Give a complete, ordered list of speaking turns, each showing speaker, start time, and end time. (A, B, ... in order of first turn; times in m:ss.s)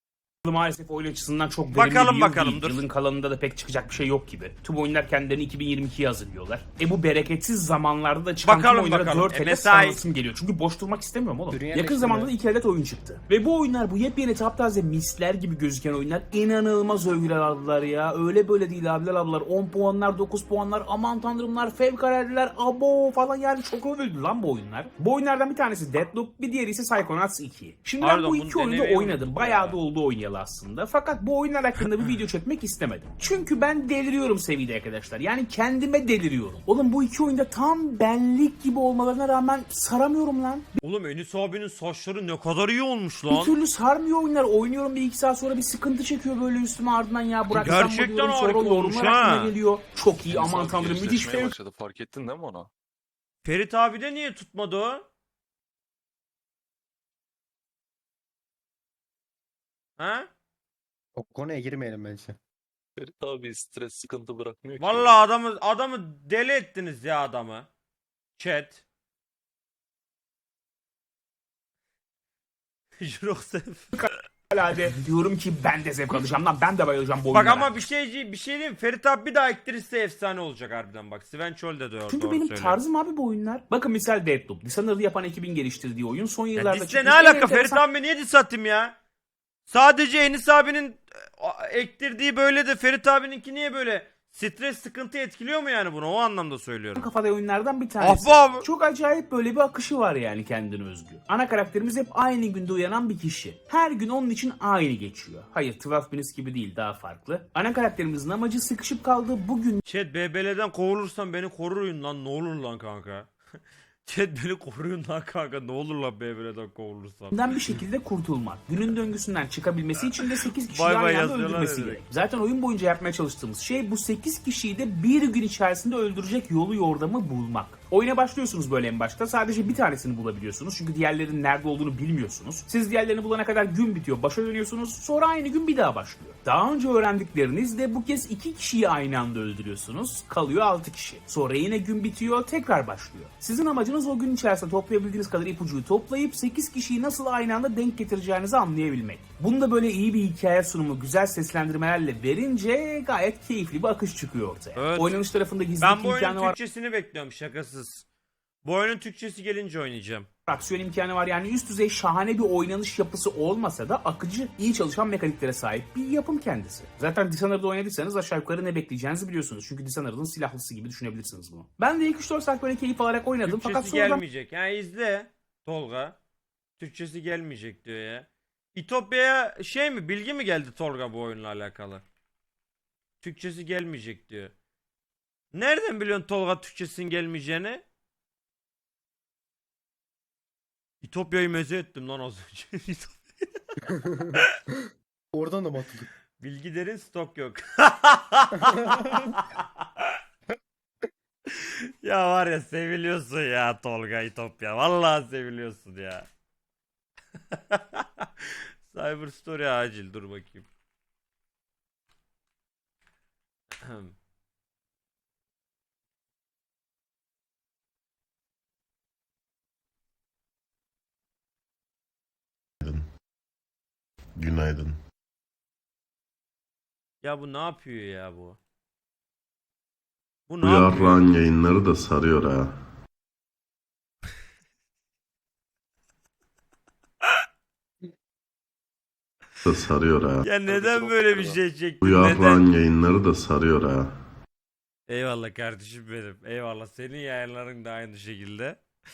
0:00.4-0:40.8 A
0:01.7-0:02.8 B
0:08.4-0:10.0 B
0:11.5-0:12.3 C
0:28.0-0:29.8 B
0:40.8-0:43.5 B
0:43.3-0:51.5 A
0:47.5-0:49.5 B
0:50.2-0:52.7 D
0:53.4-0:55.0 B
1:00.0-1:00.3 B
1:01.2-1:02.4 C
1:03.0-1:05.1 D
1:04.8-1:07.7 B
1:08.4-1:08.8 B
1:13.0-1:13.9 B
1:13.9-1:17.8 A
1:17.3-1:22.8 B
1:22.1-1:27.8 A
1:26.6-1:28.9 B
1:29.7-1:37.0 B
1:37.0-1:49.8 A
1:38.0-1:38.6 B
1:49.8-1:53.3 B
1:54.0-1:57.4 B
1:57.3-2:36.5 A
2:00.7-2:02.0 B
2:34.8-2:35.2 B
2:35.8-2:38.0 B
2:38.6-2:40.3 B
2:40.5-2:54.2 A
2:53.4-2:56.2 B
2:56.8-3:02.0 B
3:03.2-3:04.5 B
3:05.5-3:07.8 B
3:11.0-3:13.2 B
3:13.9-3:16.1 C
3:16.4-3:19.6 B
3:18.6-3:18.9 C
3:21.5-3:26.3 B
3:27.5-3:30.6 B
3:33.8-3:34.1 B
3:44.4-3:45.0 E
3:47.2-3:48.6 B
3:50.5-3:51.3 B
3:50.6-3:52.7 E
3:59.6-4:00.5 E
4:00.4-4:02.7 B
4:00.6-4:01.6 D
4:02.0-4:04.1 E
4:05.1-4:08.8 B